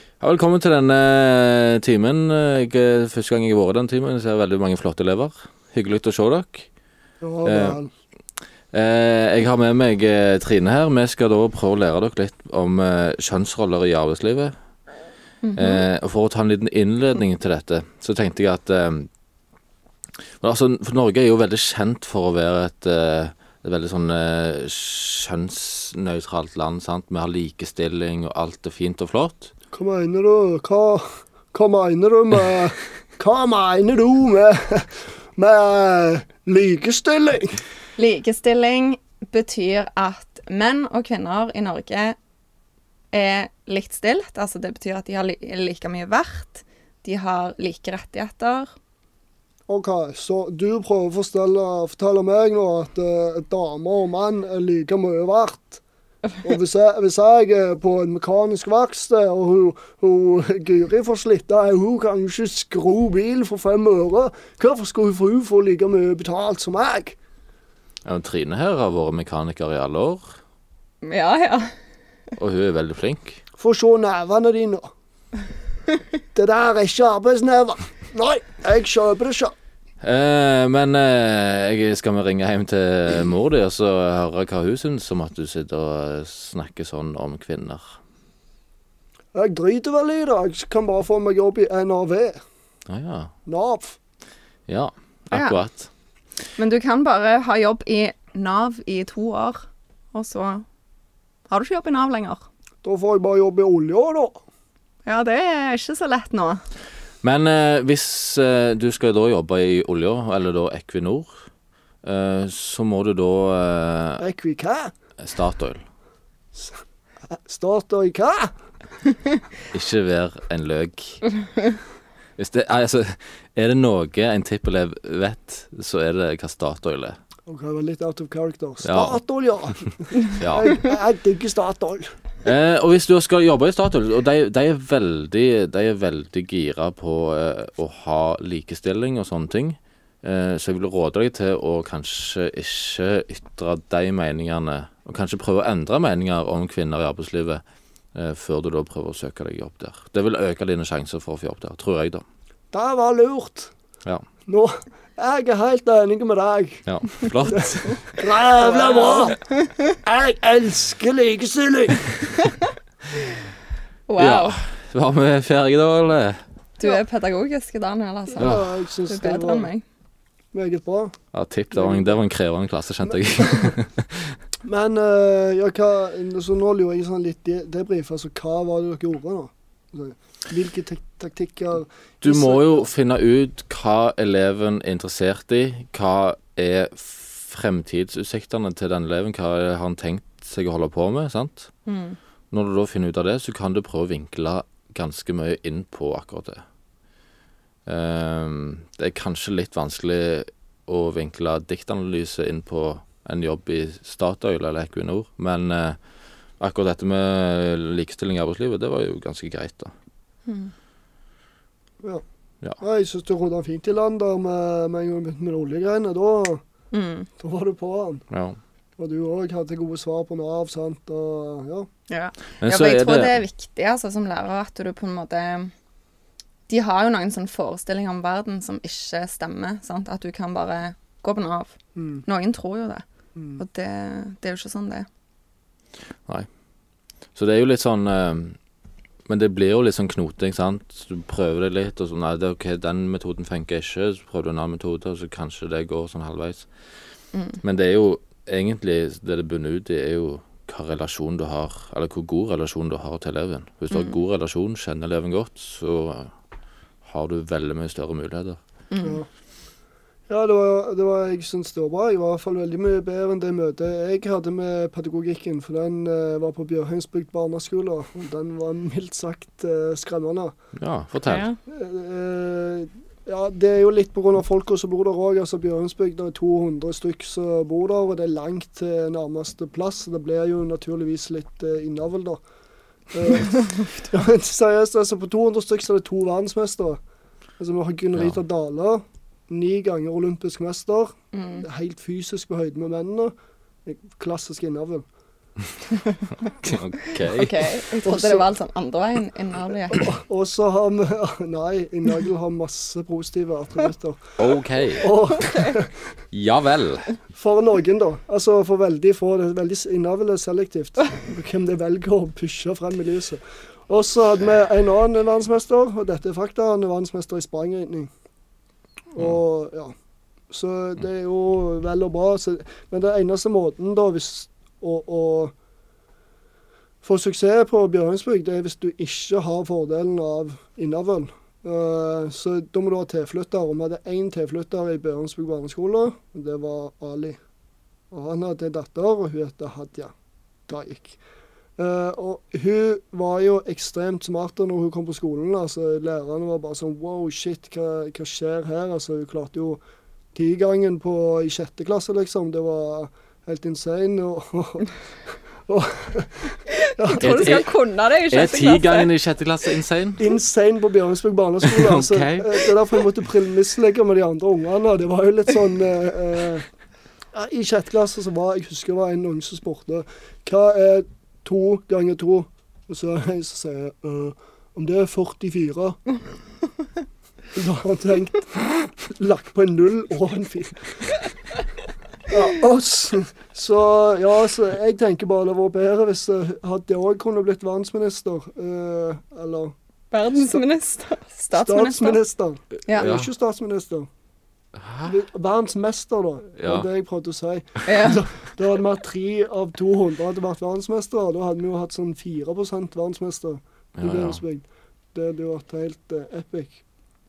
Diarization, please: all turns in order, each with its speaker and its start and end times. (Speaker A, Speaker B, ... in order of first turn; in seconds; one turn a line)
Speaker A: 0.2-6.7
Speaker B: 7.2-7.9
Speaker A: 7.4-7.8
Speaker A: 8.7-14.5
Speaker C: 15.4-15.8
Speaker A: 15.5-19.1
Speaker A: 20.4-29.5
Speaker B: 29.7-37.6
Speaker C: 38.0-42.1
Speaker C: 43.1-48.7
Speaker B: 49.7-55.8
Speaker B: 56.4-67.2
Speaker A: 68.0-70.3
Speaker C: 71.0-71.7
Speaker A: 72.4-73.4
Speaker B: 73.6-74.9
Speaker B: 76.3-79.5
Speaker A: 80.0-88.0
Speaker B: 89.3-92.4
Speaker A: 92.9-93.3
Speaker B: 93.5-94.0
Speaker A: 94.7-95.9
Speaker C: 95.3-95.6
Speaker C: 96.6-100.6
Speaker C: 101.5-102.5
Speaker B: 102.8-104.4
Speaker C: 105.0-106.6
Speaker A: 107.2-111.4
Speaker A: 112.0-114.2
Speaker B: 114.2-114.9
Speaker A: 115.2-115.8
Speaker B: 116.5-118.5
Speaker A: 119.7-121.3
Speaker A: 122.4-127.2
Speaker B: 127.5-132.1
Speaker A: 128.8-129.2
Speaker A: 130.4-130.8
Speaker A: 132.4-147.6
Speaker A: 148.1-152.2
Speaker B: 152.7-153.7
Speaker B: 154.5-156.8
Speaker A: 156.9-158.1
Speaker B: 157.5-159.4
Speaker C: 158.6-159.8
Speaker B: 160.0-162.3
Speaker C: 164.1-164.6
Speaker A: 164.2-166.4
Speaker C: 166.8-169.8
Speaker B: 168.4-169.7
Speaker A: 168.4-168.7
Speaker B: 170.5-171.2
Speaker A: 171.3-174.4
Speaker B: 171.7-172.2
Speaker B: 173.1-173.8
Speaker B: 174.6-182.8
Speaker A: 182.2-191.7
Speaker C: 191.9-192.2
Speaker A: 192.5-196.6
Speaker A: 197.9-206.0
Speaker A: 206.6-209.9
Speaker C: 210.4-210.7
Speaker B: 212.8-216.6
Speaker C: 216.9-217.3
Speaker B: 217.4-218.2
Speaker A: 218.3-218.6
Speaker B: 219.0-221.9
Speaker C: 222.1-225.7
Speaker A: 222.6-223.3
Speaker C: 226.7-233.1
Speaker B: 231.9-232.2
Speaker B: 233.4-233.6
Speaker C: 233.6-235.1
Speaker A: 237.3-238.6
Speaker A: 239.3-246.7
Speaker A: 247.6-256.3
Speaker A: 257.0-258.6
Speaker C: 258.9-259.2
Speaker B: 259.0-259.3
Speaker B: 260.3-270.5
Speaker A: 270.8-271.4
Speaker C: 271.3-271.6
Speaker B: 271.6-282.4
Speaker B: 283.1-287.0
Speaker B: 287.6-293.3
Speaker C: 291.3-291.6
Speaker B: 293.9-295.1
Speaker A: 296.6-297.5
Speaker C: 297.2-300.1
Speaker B: 298.1-298.4
Speaker B: 299.9-304.4
Speaker A: 304.4-305.1
Speaker B: 305.0-305.9
Speaker C: 305.3-305.8
Speaker A: 306.3-307.1
Speaker B: 307.3-318.1
Speaker B: 319.1-319.9
Speaker B: 320.5-325.5
Speaker B: 327.0-337.4
Speaker B: 338.1-340.1
Speaker B: 340.7-341.2
Speaker B: 341.8-349.8
Speaker B: 350.4-354.9
Speaker B: 355.6-357.6
Speaker C: 356.7-359.1
Speaker A: 357.2-357.7
Speaker A: 358.3-360.3
Speaker B: 360.2-366.6
Speaker A: 361.6-362.7
Speaker B: 367.3-376.0
Speaker B: 377.5-381.1
Speaker B: 382.3-389.7
Speaker C: 390.1-392.2
Speaker B: 391.5-394.1
Speaker A: 392.9-393.3
Speaker A: 394.8-395.2
Speaker B: 395.1-406.8
Speaker A: 396.6-396.9
Speaker C: 397.9-398.2
Speaker A: 403.9-404.4